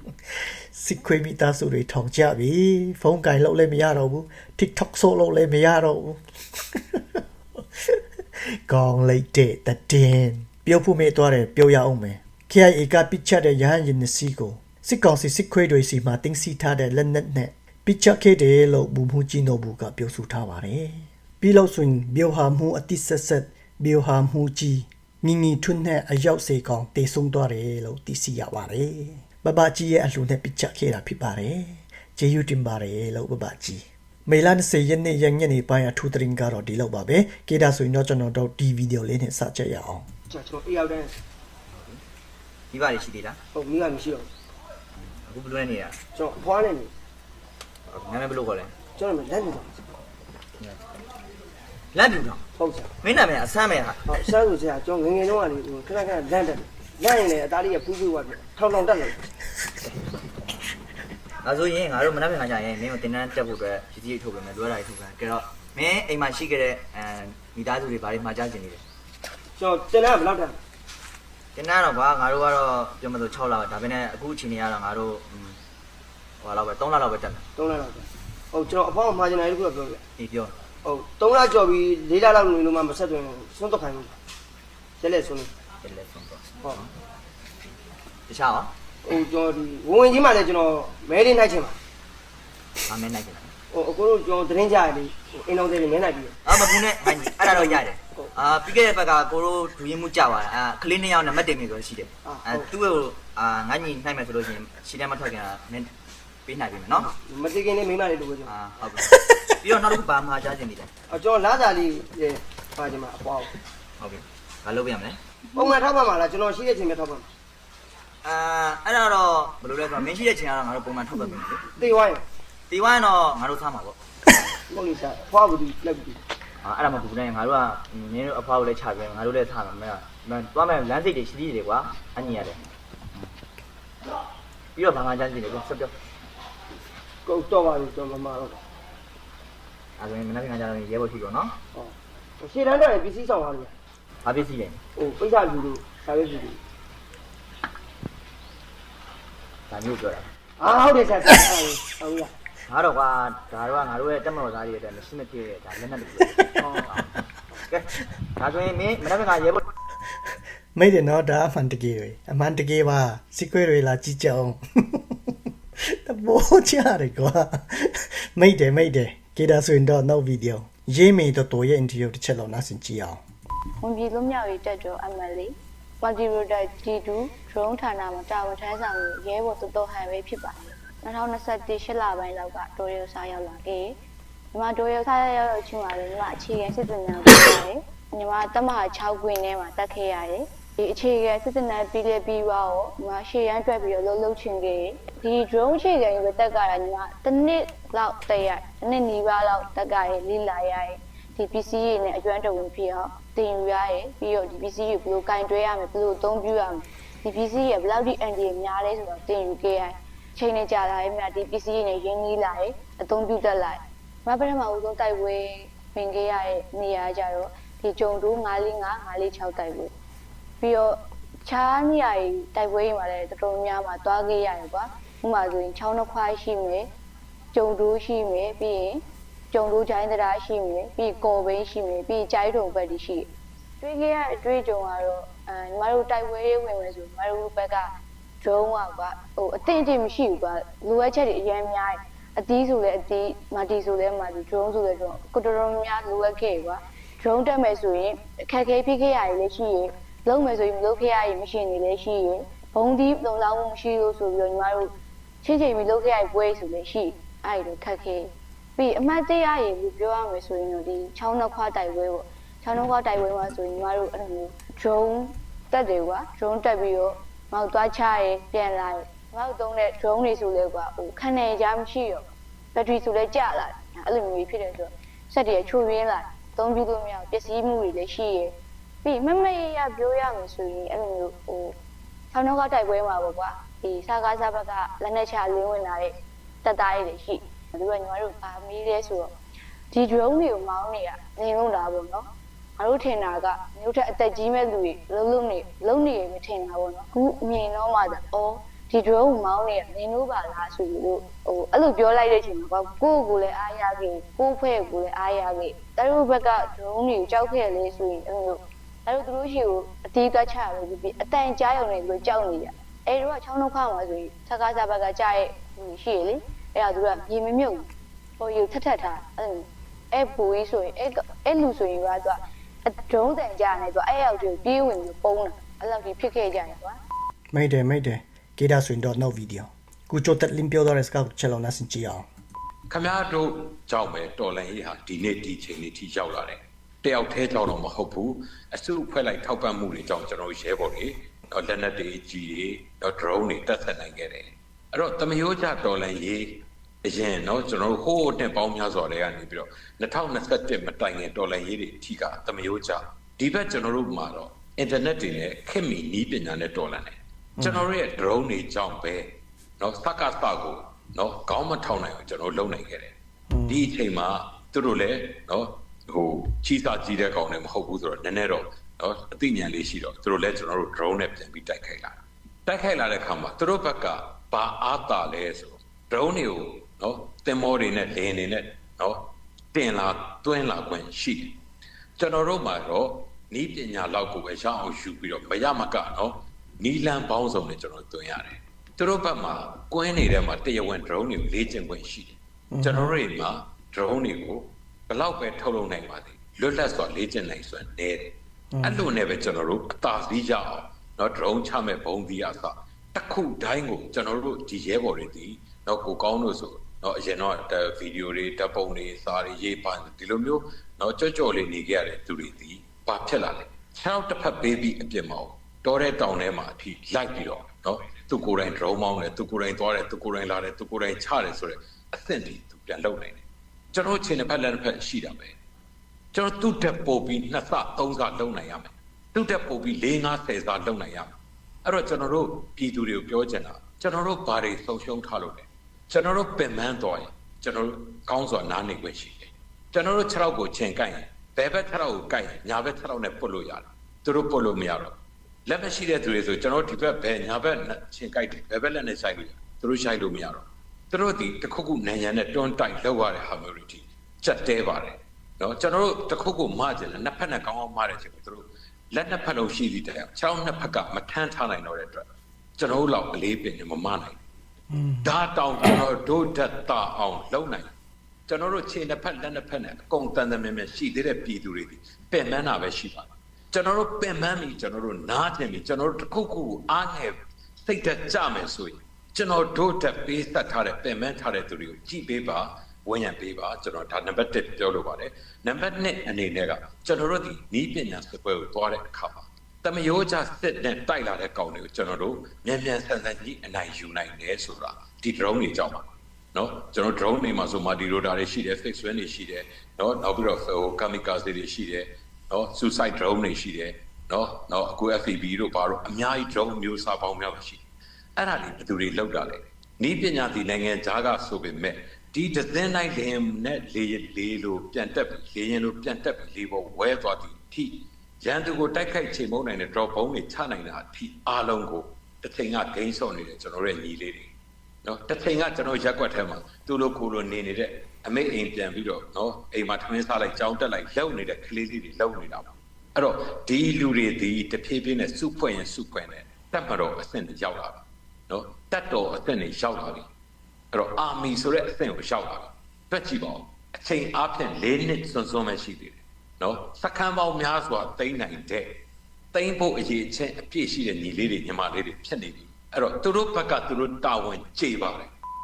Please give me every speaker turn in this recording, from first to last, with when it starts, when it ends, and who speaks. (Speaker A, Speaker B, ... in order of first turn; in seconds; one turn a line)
Speaker A: 0.7-6.2
Speaker A: 6.7-7.2
Speaker A: 8.7-40.1
Speaker B: 40.3-41.1
Speaker C: 41.7-42.0
Speaker C: 42.7-43.4
Speaker B: 43.5-44.3
Speaker C: 45.0-46.0
Speaker B: 46.1-46.9
Speaker C: 47.9-48.7
Speaker B: 49.0-49.8
Speaker C: 50.6-50.9
Speaker C: 51.9-52.4
Speaker B: 52.6-53.0
Speaker C: 53.0-54.1
Speaker B: 54.0-59.2
Speaker C: 61.4-68.8
Speaker B: 69.6-70.6
Speaker C: 71.5-75.6
Speaker C: 76.4-77.5
Speaker B: 77.5-80.0
Speaker C: 80.2-80.6
Speaker B: 80.8-84.1
Speaker B: 85.0-85.5
Speaker C: 85.8-86.9
Speaker C: 88.3-88.7
Speaker B: 89.0-91.8
Speaker C: 92.9-93.5
Speaker B: 93.7-96.8
Speaker C: 96.5-105.9
Speaker B: 102.2-102.7
Speaker C: 106.5-107.1
Speaker B: 107.0-108.6
Speaker C: 108.5-110.9
Speaker B: 111.1-113.5
Speaker C: 114.0-115.2
Speaker B: 115.5-117.3
Speaker C: 118.2-121.7
Speaker B: 121.7-122.2
Speaker C: 122.7-124.0
Speaker B: 124.7-126.2
Speaker C: 126.6-133.3
Speaker C: 134.8-136.0
Speaker B: 137.2-138.6
Speaker C: 140.0-141.6
Speaker B: 141.7-143.7
Speaker C: 144.2-144.8
Speaker B: 145.0-146.6
Speaker C: 149.7-150.3
Speaker B: 150.6-152.3
Speaker C: 152.7-157.1
Speaker B: 156.6-156.9
Speaker C: 157.7-159.7
Speaker A: 160.8-165.2
Speaker A: 165.8-173.2
Speaker D: 173.8-184.0
Speaker D: 184.5-219.9
Speaker D: 220.6-226.9
Speaker D: 227.5-233.3
Speaker D: 233.8-281.8
Speaker D: 282.3-289.3
Speaker D: 289.9-327.0
Speaker A: 327.5-332.3
Speaker E: 332.9-363.1
Speaker A: 357.6-357.9
Speaker A: 363.5-363.9
Speaker E: 363.7-381.6
Speaker E: 382.2-425.6
Speaker A: 392.7-393.2
Speaker A: 398.7-399.1
Speaker E: 426.3-462.3
Speaker E: 462.8-464.4
Speaker A: 464.9-465.3
Speaker E: 465.2-467.9
Speaker E: 468.5-507.8
Speaker E: 508.4-524.5
Speaker E: 525.0-540.3
Speaker E: 540.9-549.0
Speaker E: 549.5-555.3